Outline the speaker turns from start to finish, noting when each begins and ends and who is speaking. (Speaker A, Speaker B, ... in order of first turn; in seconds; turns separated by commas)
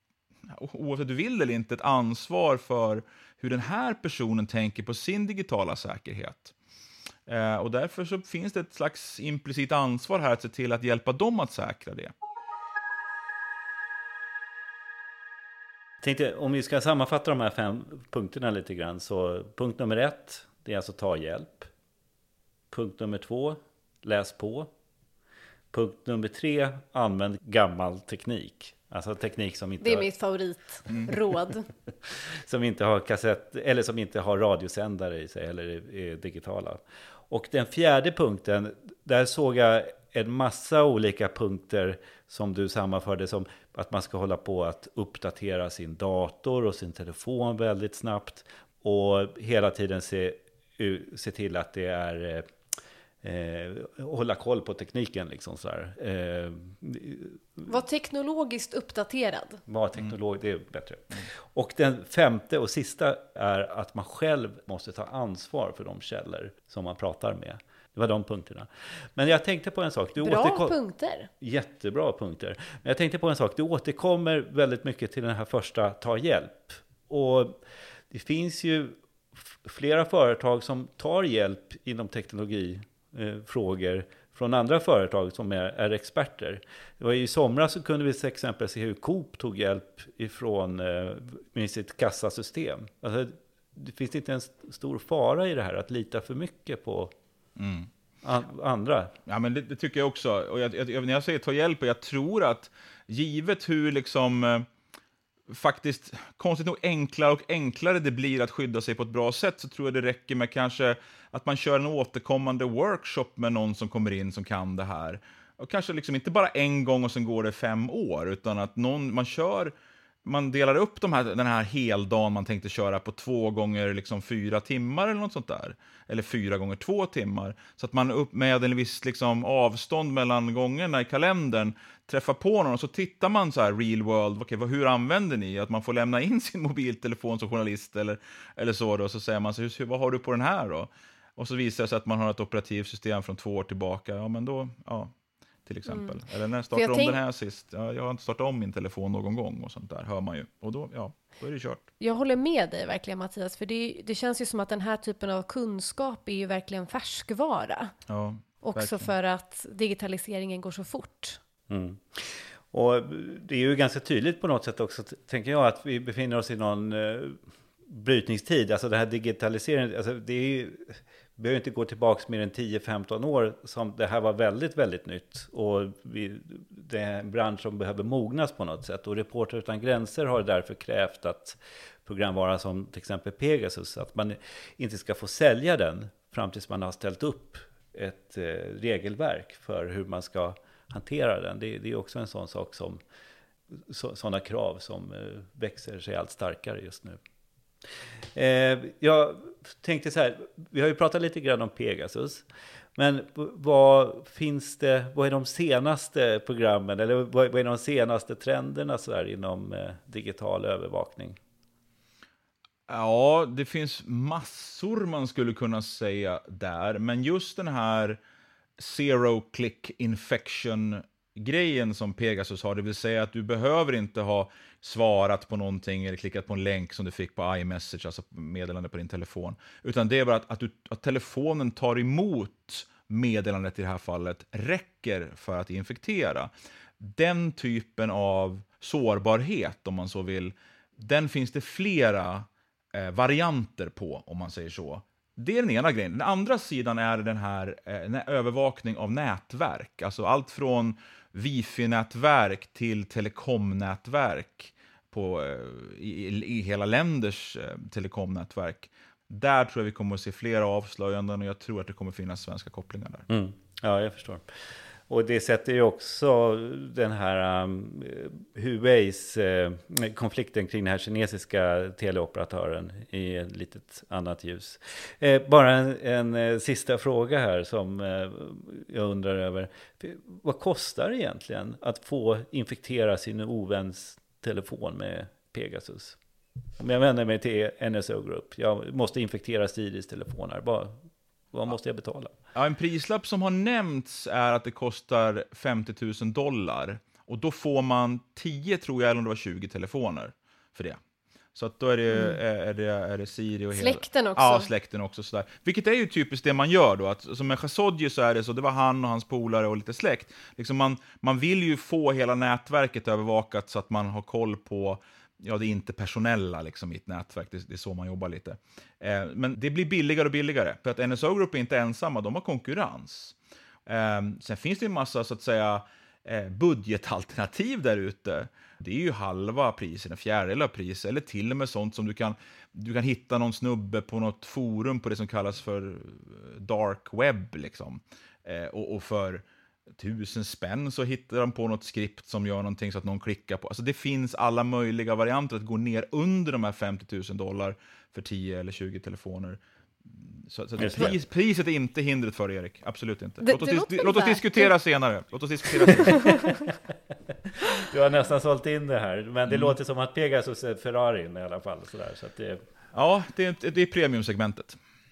Speaker A: 0.5-6.5, Speaker A: 7.2-12.1, Speaker B: 16.0-21.7, Speaker B: 22.7-24.7, Speaker B: 25.7-30.1, Speaker C: 29.8-31.7, Speaker B: 32.1-52.5, Speaker B: 53.2-57.7, Speaker C: 57.7-59.6, Speaker B: 59.7-70.8, Speaker C: 70.2-71.3, Speaker B: 71.4-77.6, Speaker B: 78.1-97.1, Speaker A: 97.6-97.9, Speaker B: 98.2-99.1, Speaker A: 99.2-104.7, Speaker A: 105.5-145.1, Speaker A: 145.7-151.8, Speaker C: 145.9-146.2, Speaker C: 146.7-147.2, Speaker C: 152.0-157.9, Speaker A: 158.1-159.1, Speaker C: 158.6-161.4, Speaker B: 161.7-193.0, Speaker B: 193.7-197.2, Speaker B: 198.3-211.4, Speaker A: 212.9-218.2, Speaker A: 218.8-236.5, Speaker A: 237.0-263.3, Speaker B: 263.3-264.4, Speaker B: 265.1-286.2, Speaker B: 286.8-292.3, Speaker A: 292.5-301.0, Speaker A: 301.5-356.3, Speaker C: 303.7-304.7, Speaker B: 350.8-351.2, Speaker C: 353.4-354.7, Speaker C: 356.0-356.5, Speaker B: 357.6-362.6, Speaker A: 359.5-359.7, Speaker A: 362.9-364.8